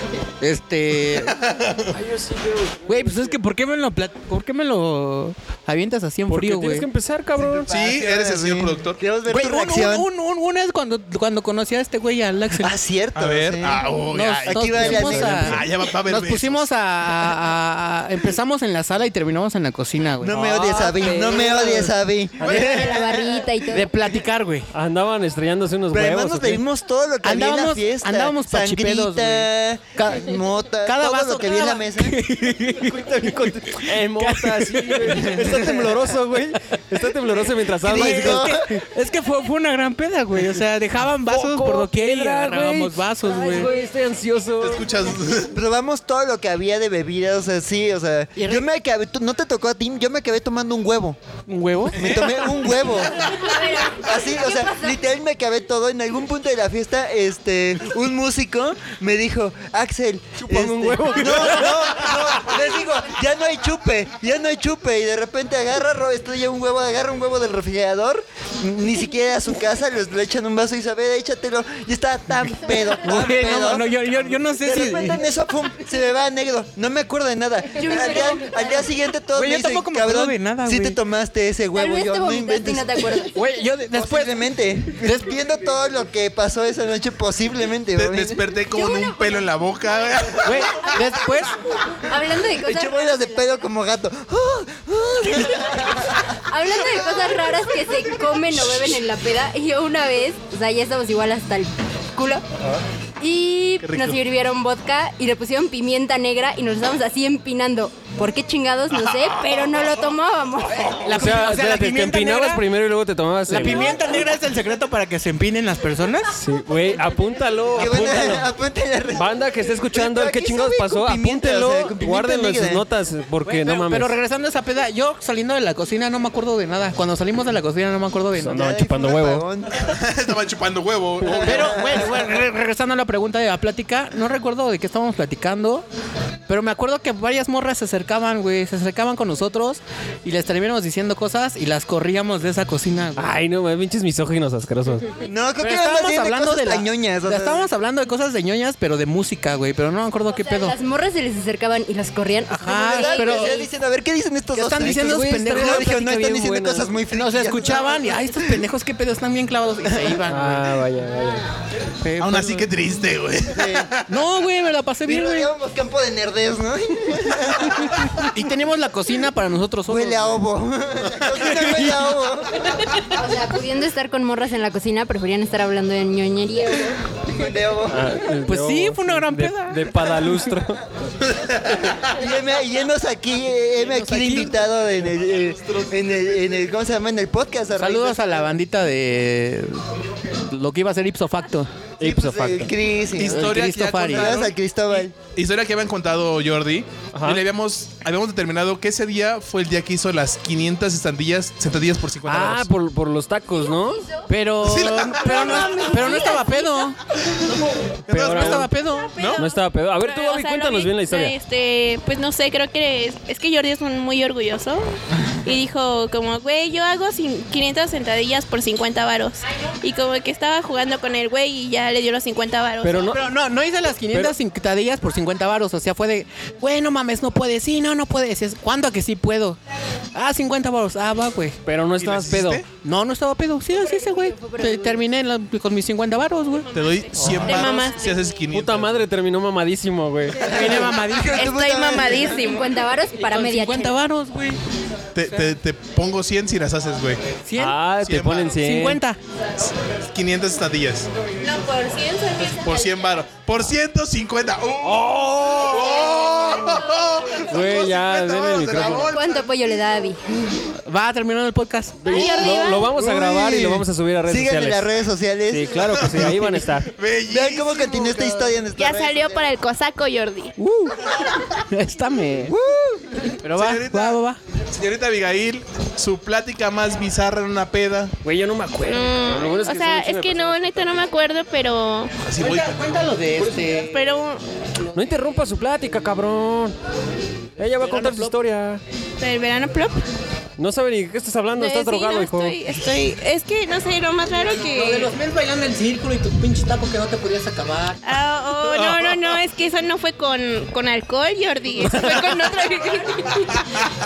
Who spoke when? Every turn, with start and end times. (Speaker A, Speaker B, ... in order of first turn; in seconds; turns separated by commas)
Speaker A: 0.4-1.3, Speaker B: 1.1-1.9, Speaker C: 1.9-3.4, Speaker A: 2.9-6.9, Speaker C: 6.3-7.7, Speaker D: 7.4-10.1, Speaker B: 7.7-9.0, Speaker A: 9.3-12.7, Speaker D: 12.6-13.8, Speaker B: 13.1-16.6, Speaker A: 13.9-21.8, Speaker D: 14.4-15.6, Speaker C: 14.7-15.6, Speaker D: 20.2-23.5, Speaker C: 20.3-21.9, Speaker E: 22.4-23.9, Speaker A: 23.7-24.7, Speaker C: 24.7-26.6, Speaker D: 25.9-32.2, Speaker A: 27.2-30.3, Speaker A: 30.8-36.3, Speaker C: 32.8-38.8, Speaker A: 37.8-43.7, Speaker D: 37.8-38.7, Speaker C: 41.2-44.8, Speaker B: 44.6-45.5, Speaker D: 45.5-51.2, Speaker A: 48.4-48.6, Speaker A: 51.5-52.0, Speaker D: 51.9-53.3, Speaker B: 51.9-52.6, Speaker E: 53.3-55.0, Speaker D: 53.9-73.9, Speaker C: 60.4-62.2, Speaker A: 73.0-75.2, Speaker D: 74.6-83.3, Speaker E: 77.8-78.9, Speaker A: 79.3-81.0, Speaker E: 81.8-83.4, Speaker A: 83.3-84.4, Speaker D: 83.9-88.5, Speaker A: 85.0-85.3, Speaker B: 87.9-91.0, Speaker E: 88.7-89.3, Speaker A: 90.4-91.5, Speaker E: 92.0-93.2, Speaker D: 92.6-96.3, Speaker E: 96.3-102.4, Speaker E: 103.2-111.0, Speaker B: 103.8-104.2, Speaker B: 108.9-110.0, Speaker A: 111.0-112.6, Speaker C: 111.1-114.0, Speaker A: 113.5-116.3, Speaker C: 116.3-118.5, Speaker D: 117.8-122.8, Speaker C: 119.1-124.1, Speaker A: 123.4-128.6, Speaker C: 128.4-129.4, Speaker D: 128.5-129.8, Speaker B: 129.8-132.0, Speaker A: 131.3-135.8, Speaker D: 131.5-131.8, Speaker A: 136.5-143.3, Speaker C: 143.2-145.1, Speaker D: 145.2-147.7, Speaker A: 145.6-150.8, Speaker E: 150.4-153.7, Speaker A: 152.5-153.5, Speaker D: 152.8-158.2, Speaker A: 154.5-156.4, Speaker C: 155.0-156.9, Speaker A: 157.1-160.8, Speaker C: 160.3-161.4, Speaker A: 162.0-162.7, Speaker B: 162.2-164.1, Speaker D: 163.5-163.9, Speaker A: 164.1-165.5, Speaker D: 165.1-168.2, Speaker A: 168.2-170.4, Speaker D: 169.9-172.6, Speaker E: 173.1-177.0, Speaker D: 177.2-178.2, Speaker C: 177.9-180.8, Speaker A: 178.4-180.5, Speaker D: 182.0-188.5, Speaker A: 183.8-184.6, Speaker A: 187.7-189.8, Speaker A: 190.4-191.8, Speaker C: 192.0-192.7, Speaker D: 192.0-193.6, Speaker B: 193.1-202.7, Speaker A: 193.2-194.4, Speaker D: 194.1-195.1, Speaker C: 197.1-197.4, Speaker C: 202.2-204.0, Speaker E: 203.6-204.2, Speaker A: 204.3-207.0, Speaker B: 204.6-205.9, Speaker E: 205.2-206.8, Speaker B: 208.1-209.4, Speaker A: 208.1-209.2, Speaker C: 208.1-208.7, Speaker F: 209.2-214.9, Speaker C: 209.4-211.3, Speaker F: 215.4-223.2, Speaker C: 222.8-223.2, Speaker A: 223.0-229.6, Speaker A: 230.1-231.6, Speaker C: 231.6-232.6, Speaker B: 231.9-232.7, Speaker A: 232.8-236.7, Speaker E: 233.8-235.0, Speaker F: 236.7-238.3, Speaker B: 236.7-239.0, Speaker C: 237.2-237.6, Speaker C: 238.5-240.5, Speaker A: 240.4-241.5, Speaker D: 240.4-242.4, Speaker F: 241.2-242.7, Speaker E: 242.2-243.9, Speaker A: 243.2-244.6, Speaker B: 245.1-247.2, Speaker A: 247.4-247.8, Speaker C: 247.6-249.0, Speaker B: 248.0-248.6, Speaker A: 248.6-249.2, Speaker B: 249.6-251.1, Speaker F: 251.4-252.9, Speaker B: 252.6-259.7, Speaker C: 254.8-255.9, Speaker C: 257.5-259.1, Speaker E: 259.0-260.2, Speaker A: 260.9-262.2, Speaker C: 262.0-264.9, Speaker F: 262.1-262.9, Speaker D: 263.0-266.0, Speaker C: 265.5-266.9, Speaker B: 265.8-268.4, Speaker D: 267.3-269.4, Speaker F: 268.7-270.5, Speaker A: 270.6-270.9, Speaker A: 271.7-272.5, Speaker D: 272.4-273.4, Speaker A: 273.4-274.4, Speaker B: 273.6-274.2, Speaker B: 274.7-278.1, Speaker C: 278.2-281.1, Speaker F: 278.9-282.1, Speaker B: 282.2-282.8, Speaker A: 282.4-284.1, Speaker F: 283.7-284.4, Speaker C: 284.9-286.7, Speaker C: 287.6-288.8, Speaker A: 287.6-288.3, Speaker F: 289.2-290.0, Speaker C: 290.6-292.6, Speaker F: 291.6-295.1, Speaker A: 294.5-298.0, Speaker F: 298.0-303.6, Speaker C: 301.8-302.2